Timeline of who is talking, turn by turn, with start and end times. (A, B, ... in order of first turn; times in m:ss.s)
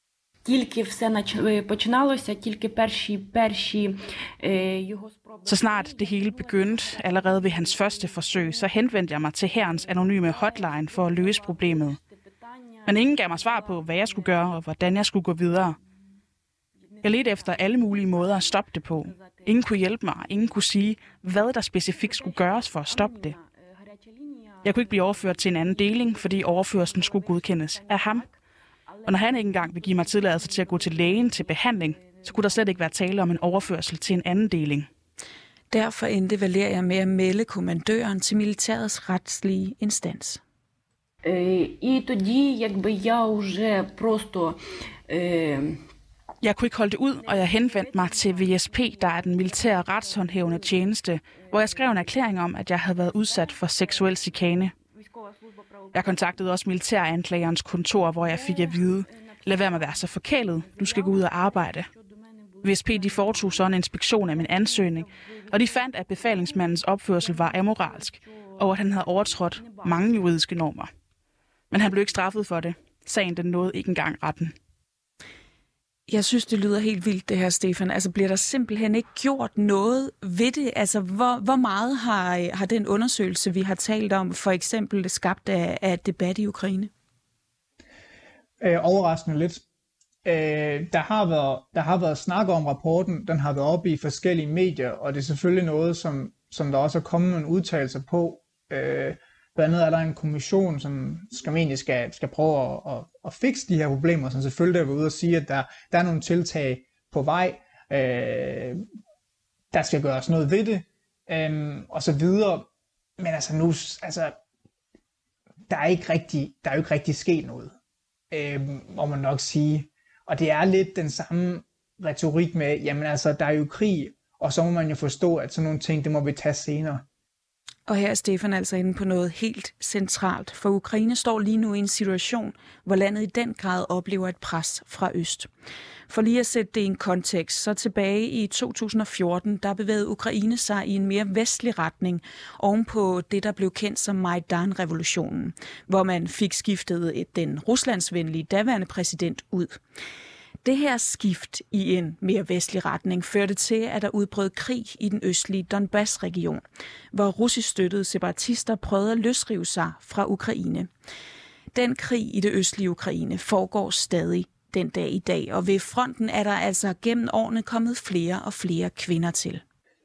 0:00.4-0:08.7 A
0:05.4-0:12.0 B
0:09.8-0:12.0 A
0:12.7-0:14.4 A
0:12.8-0:15.8 B
0:17.0-0:17.9 A
0:17.0-0:23.4 B
0:19.2-0:19.4 A
0:22.1-0:23.4 A
0:24.1-0:28.3 A
0:24.6-0:28.2 B
0:29.0-0:32.8 A
0:29.0-0:34.9 B
0:35.7-0:40.4 C
0:41.2-0:44.6 A
0:45.1-0:45.8 A
0:46.4-0:54.7 B
0:47.3-0:50.8 A
0:51.5-0:52.0 A
0:53.3-0:53.6 A
0:55.0-0:55.2 A
0:55.9-1:01.9 B
0:58.3-1:00.1 A
1:00.7-1:02.0 A
1:02.6-1:10.9 B
1:02.7-1:03.6 A
1:04.3-1:08.5 A
1:09.5-1:09.8 A
1:11.7-1:14.5 B
1:16.1-1:26.9 C
1:28.6-1:29.6 D
1:30.2-1:48.8 D
1:49.7-1:54.4 D
1:55.7-1:57.7 D
1:58.3-2:07.0 D
2:07.8-2:15.5 C
2:16.1-2:29.8 C
2:30.6-2:40.9 C
2:41.7-2:49.6 C